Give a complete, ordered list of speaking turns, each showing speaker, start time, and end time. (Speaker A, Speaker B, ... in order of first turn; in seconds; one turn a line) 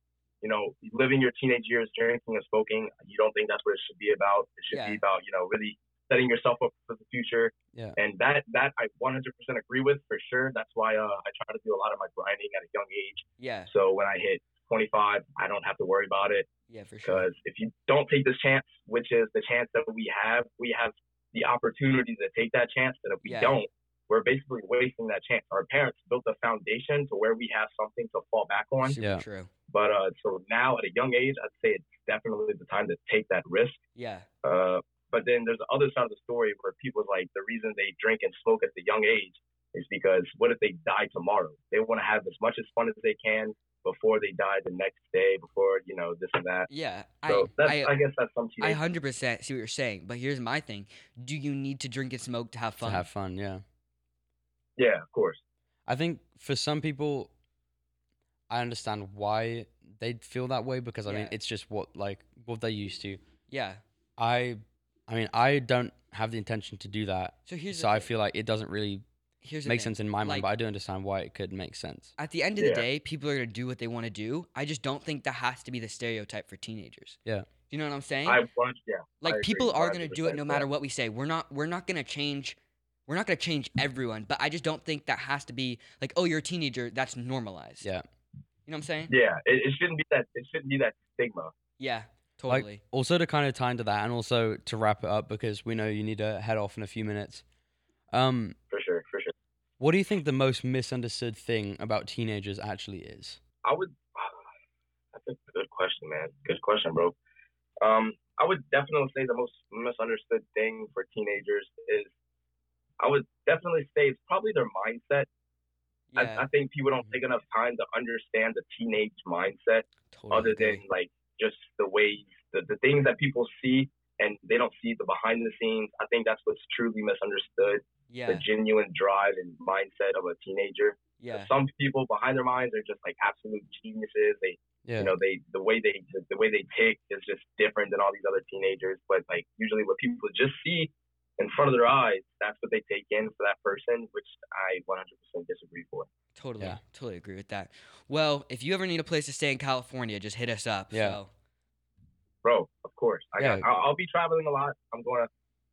Speaker A: 0.4-16.5
Speaker B: 4.7-5.0
Speaker B: 13.4-13.7
Speaker B: 16.7-17.3
Speaker A: 17.1-29.0
Speaker B: 23.2-23.6
Speaker B: 28.8-29.5
Speaker A: 29.7-33.8
Speaker B: 33.9-34.3
Speaker A: 34.4-46.7
Speaker B: 46.7-48.0
Speaker A: 47.3-48.8
Speaker B: 48.6-53.1
Speaker C: 52.8-53.6
Speaker A: 54.8-55.4
Speaker C: 55.9-57.3
Speaker C: 58.5-63.2
Speaker B: 61.1-61.3
Speaker B: 63.5-63.8
Speaker C: 64.2-69.0
Speaker B: 67.5-68.1
Speaker B: 69.4-70.5
Speaker C: 69.6-72.1
Speaker B: 72.2-77.2
Speaker A: 72.6-72.8
Speaker B: 77.7-78.4
Speaker A: 78.3-80.7
Speaker B: 79.2-87.9
Speaker B: 88.7-89.1
Speaker A: 89.1-91.5
Speaker B: 91.8-92.8
Speaker C: 92.5-97.4
Speaker C: 98.1-98.6
Speaker A: 98.7-99.3
Speaker C: 99.8-103.4
Speaker A: 103.6-104.4
Speaker A: 105.1-107.1
Speaker A: 107.8-112.1
Speaker A: 113.0-115.3
Speaker B: 116.1-116.5
Speaker A: 116.2-146.1
Speaker B: 120.1-120.8
Speaker B: 128.1-128.5
Speaker B: 131.2-131.5
Speaker C: 134.8-135.1
Speaker B: 146.3-151.3
Speaker C: 150.9-151.2
Speaker A: 152.4-155.3
Speaker C: 153.4-153.7